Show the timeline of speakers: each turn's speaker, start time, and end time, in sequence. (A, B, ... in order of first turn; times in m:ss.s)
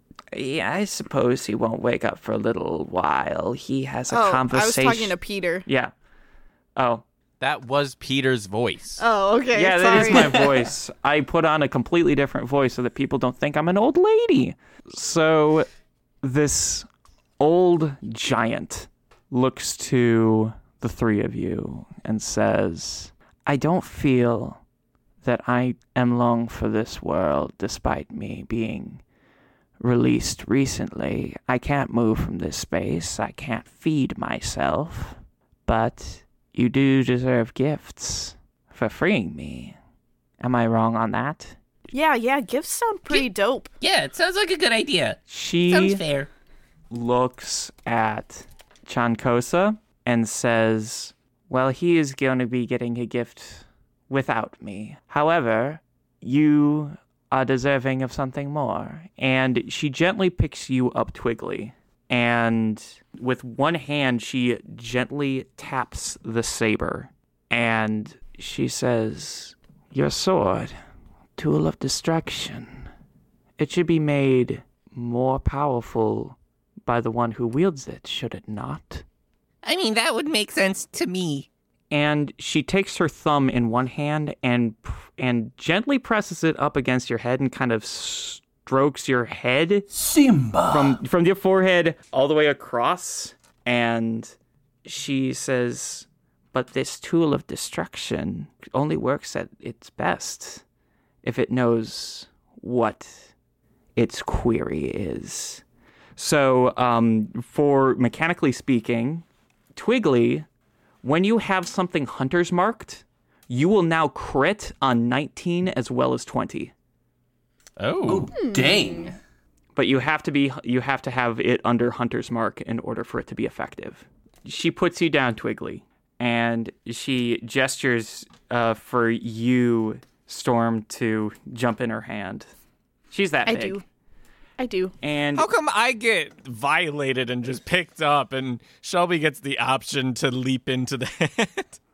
0:00.3-0:05.2 A
0:04.1-0:05.7 B
0:05.7-0:05.9 A
0:06.8-0:07.0 A
0:07.4-0:09.0 C
0:09.0-0:10.4 B
0:09.5-0:15.7 A
0:10.0-0:10.6 D
0:16.2-0:16.9 A
0:17.4-0:24.6 A
0:25.2-0:29.0 A
0:29.8-0:39.8 A
0:40.4-0:41.6 A
0:41.9-0:43.7 B
0:43.8-0:46.3 E
0:45.3-0:46.0 A
0:46.9-1:10.7 A
1:11.4-1:12.9 A
1:13.6-1:19.0 A
1:19.6-1:21.5 E
1:21.9-1:29.9 A
1:29.9-1:31.0 D
1:30.7-1:34.3 A
1:34.8-1:40.6 A
1:41.2-1:43.3 A
1:44.0-1:45.6 A
1:46.2-1:50.5 A
1:51.0-1:56.7 A
1:57.8-1:58.3 C
1:58.1-1:59.2 D
1:58.4-1:59.1 B
1:59.8-2:12.5 A
2:13.1-2:13.8 A
2:13.5-2:13.8 B
2:14.6-2:14.9 B
2:15.0-2:15.5 A
2:15.4-2:21.8 C